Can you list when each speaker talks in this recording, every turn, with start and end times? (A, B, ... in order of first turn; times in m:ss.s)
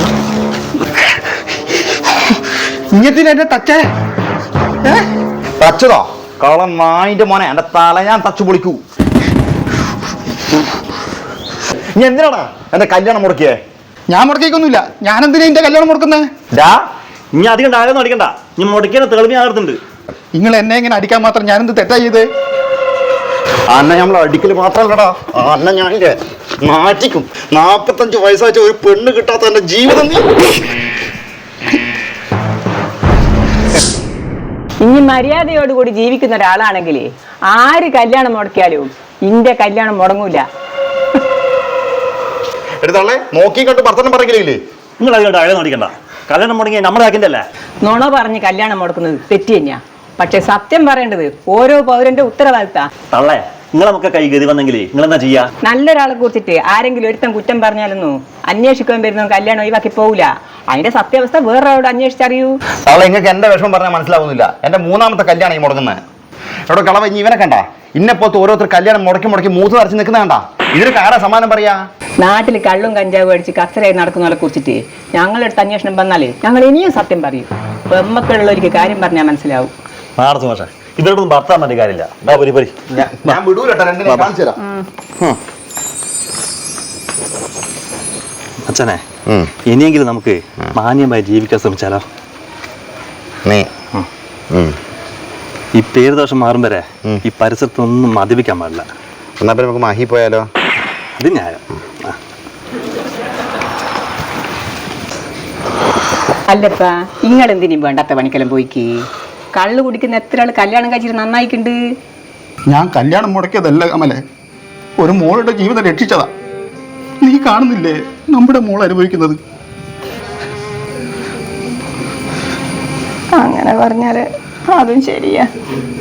0:02.9-0:03.8 A
0:05.6-0:08.8 B
0:11.9-0:13.6 B
0:14.1-0:16.3 A
0:16.5-0:16.8 B
0:17.3-0:19.8 C
0:20.3-0:22.3 A
0:23.7-0:30.4 B
0:34.8-0:40.4 D
0:42.8-0:44.6 B
0:45.0-0:47.4 C
0:47.8-0:52.9 D
0:53.1-0:55.5 C
0:55.6-1:02.6 D
1:02.8-1:06.0 B
1:06.7-1:11.8 B
1:12.2-1:19.7 D
1:20.2-1:23.4 C
1:23.0-1:24.6 B
1:24.0-1:24.3 C
1:28.6-1:29.0 C
1:29.2-1:29.5 B
1:29.6-1:32.0 C
1:34.5-1:34.8 B
1:35.8-1:38.9 C
1:39.4-1:40.5 B
1:41.2-1:42.2 C
1:46.5-1:51.8 D
1:52.7-1:54.2 A
1:55.0-1:56.3 A
1:57.2-1:59.4 A
2:03.3-2:05.5 D